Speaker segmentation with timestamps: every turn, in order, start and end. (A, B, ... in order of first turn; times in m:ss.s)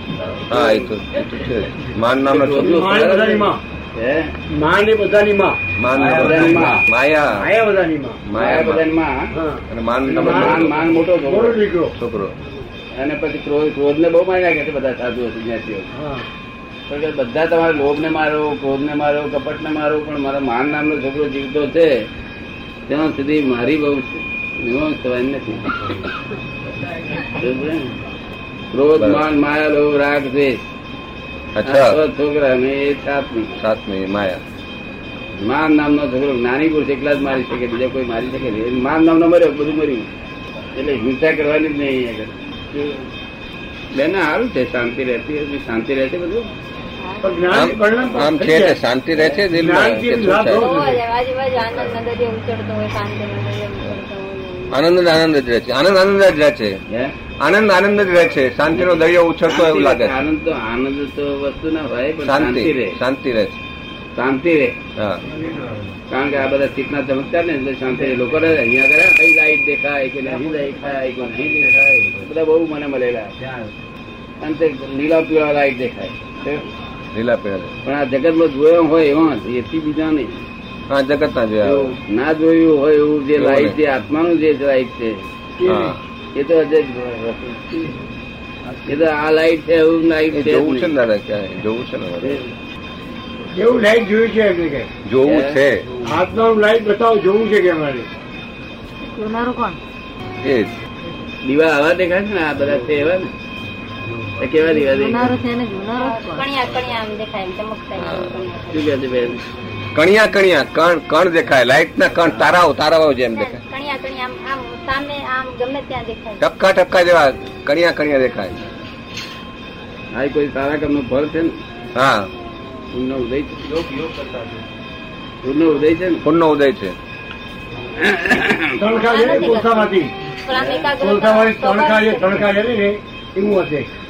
0:00.5-0:03.2 A
0:02.2-0:04.3 B
0:02.5-0:03.6 C
0:04.5-0:06.8 C
0:05.8-0:07.4 A
0:05.9-0:06.9 B
0:07.4-0:08.2 C
0:08.2-0:08.8 A
0:08.4-0:09.3 B
0:09.3-0:11.9 C
0:09.7-0:10.9 A
0:10.0-0:11.6 B
0:12.0-0:12.3 A
0:12.9-0:15.9 B
0:15.9-0:16.2 C
0:16.9-0:22.0 B
0:22.9-0:26.0 B
0:27.3-0:27.9 B
0:28.7-0:30.6 B
0:29.0-0:29.3 A
0:31.6-0:32.0 A
0:31.6-0:33.6 B
0:33.6-0:34.4 A
0:35.4-0:40.1 B
0:40.7-0:43.1 B
0:43.9-0:46.5 B
0:47.0-0:47.4 D
0:47.2-0:48.8 C
0:47.5-0:50.7 A
0:49.1-0:49.4 B
0:49.5-0:51.0 C
0:50.5-0:54.8 D
0:54.7-0:56.8 A
0:56.9-0:57.2 B
0:57.4-1:00.2 A
0:59.4-1:03.0 B
1:02.2-1:03.6 A
1:04.1-1:04.8 B
1:05.0-1:05.2 A
1:06.1-1:13.5 B
1:14.4-1:16.6 B
1:17.1-1:17.7 A
1:17.8-1:20.4 B
1:20.9-1:22.0 A
1:21.6-1:25.3 B
1:23.4-1:23.8 A
1:25.6-1:25.9 C
1:25.6-1:26.0 A
1:26.3-1:28.0 B
1:28.9-1:30.9 B
1:30.3-1:32.4 A
1:32.2-1:32.5 B
1:33.5-1:34.9 C
1:35.0-1:35.8 A
1:35.2-1:36.0 B
1:36.0-1:38.1 C
1:39.1-1:39.8 E
1:40.4-1:40.7 A
1:41.4-1:43.3 B
1:44.4-1:45.4 B
1:44.7-1:46.4 E
1:45.9-1:48.8 D
1:47.9-1:48.3 A
1:48.7-1:49.4 B
1:49.9-1:53.6 A
1:52.2-1:52.5 B
1:53.3-1:56.4 D
1:56.4-1:58.6 A
2:00.1-2:01.6 B
2:01.9-2:02.3 A
2:02.9-2:03.8 B
2:03.9-2:04.6 A
2:05.4-2:06.2 B
2:06.2-2:07.0 A
2:08.0-2:08.8 B
2:08.8-2:10.1 C
2:08.9-2:12.5 D
2:10.5-2:10.9 B
2:11.0-2:13.9 C